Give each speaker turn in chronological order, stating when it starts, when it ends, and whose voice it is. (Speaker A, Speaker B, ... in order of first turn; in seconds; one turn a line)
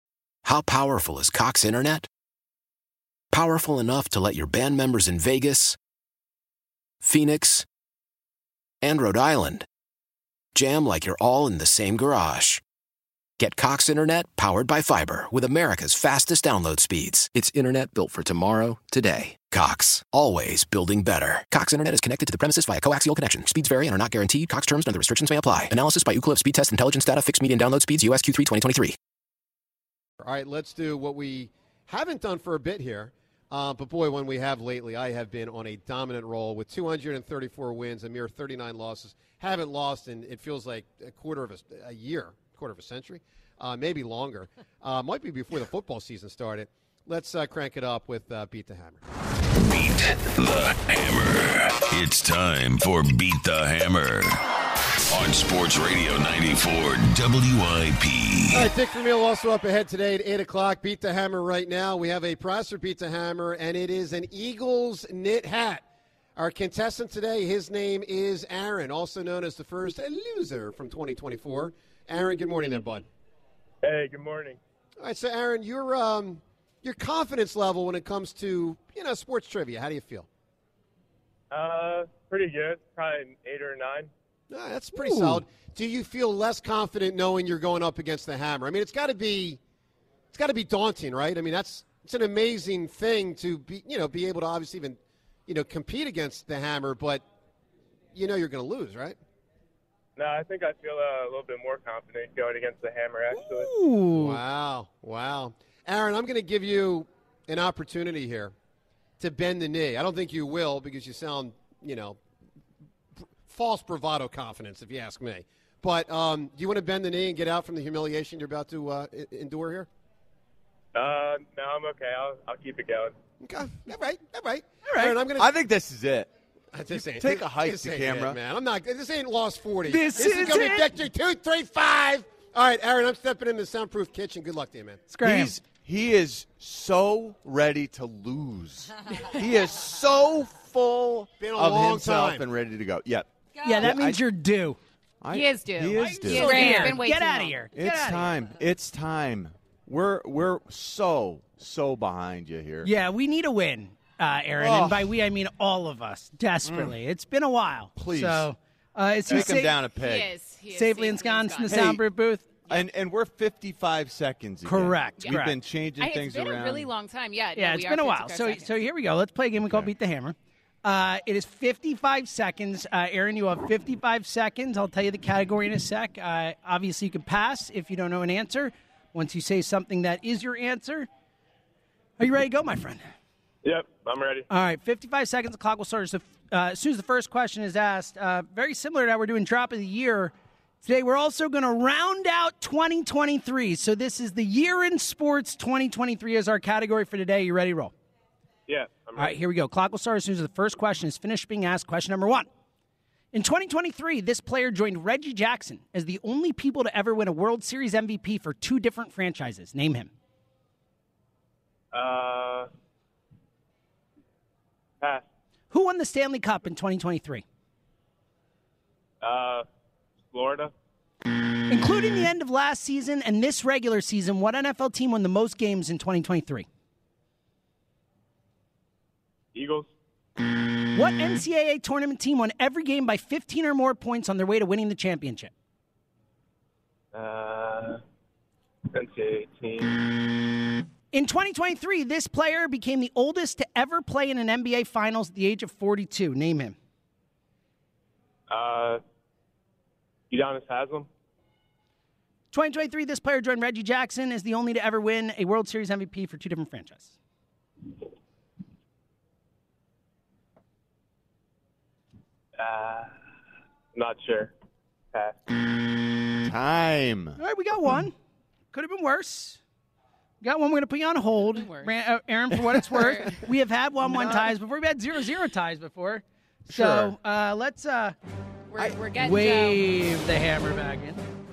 Speaker A: 0.5-2.1
Speaker A: 3.3-5.8
Speaker A: 7.0-7.7
Speaker A: 8.8-9.7
Speaker A: 10.5-12.6
Speaker A: 13.4-28.9
Speaker B: 30.2-49.0
Speaker C: 49.6-54.4
Speaker C: 55.1-58.7
Speaker B: 58.5-65.8
Speaker B: 66.3-73.0
Speaker D: 73.8-74.6
Speaker B: 75.0-80.3
Speaker D: 81.5-84.1
Speaker B: 84.5-89.6
Speaker E: 84.9-85.4
Speaker B: 90.3-97.2
Speaker B: 98.1-99.2
Speaker D: 100.2-103.7
Speaker E: 103.3-104.4
Speaker B: 104.2-108.5
Speaker B: 109.2-112.2
Speaker B: 113.4-119.9
Speaker D: 120.9-123.2
Speaker B: 123.4-125.5
Speaker E: 124.9-125.2
Speaker F: 125.4-126.3
Speaker B: 126.7-135.2
Speaker F: 126.9-128.4
Speaker E: 129.9-131.0
Speaker E: 135.1-135.6
Speaker F: 135.2-144.2
Speaker B: 141.4-142.4
Speaker E: 143.6-144.8
Speaker F: 145.2-147.0
Speaker G: 145.3-147.6
Speaker E: 146.0-148.3
Speaker F: 147.7-152.9
Speaker E: 152.8-159.8
Speaker F: 154.6-155.1
Speaker F: 156.6-157.0
Speaker F: 158.0-158.5
Speaker F: 159.3-160.3
Speaker G: 159.9-161.9
Speaker E: 160.7-162.5
Speaker F: 161.7-162.1
Speaker F: 162.7-166.9
Speaker E: 164.6-165.6
Speaker G: 165.2-168.9
Speaker E: 167.5-181.1
Speaker F: 169.6-169.9
Speaker E: 182.2-183.0
Speaker D: 183.6-184.5
Speaker E: 184.5-197.9
Speaker D: 198.7-199.4
Speaker E: 199.2-202.5
Speaker E: 203.3-210.1
Speaker D: 211.9-212.7
Speaker D: 215.0-215.3
Speaker E: 215.7-217.4
Speaker D: 219.2-219.7
Speaker D: 220.3-220.7
Speaker E: 221.7-226.7
Speaker D: 229.5-229.9
Speaker E: 230.9-235.5
Speaker D: 237.1-238.0
Speaker D: 238.9-240.2
Speaker E: 241.1-246.8
Speaker D: 248.5-249.0
Speaker D: 250.3-251.1
Speaker E: 252.5-257.1
Speaker D: 262.6-263.1
Speaker D: 263.9-264.5
Speaker D: 265.1-265.6
Speaker F: 266.4-267.4
Speaker E: 267.4-268.1
Speaker E: 268.7-269.6
Speaker E: 270.4-278.1
Speaker G: 271.5-271.9
Speaker G: 272.9-273.4
Speaker F: 276.7-277.1
Speaker G: 278.7-279.9
Speaker E: 279.1-281.2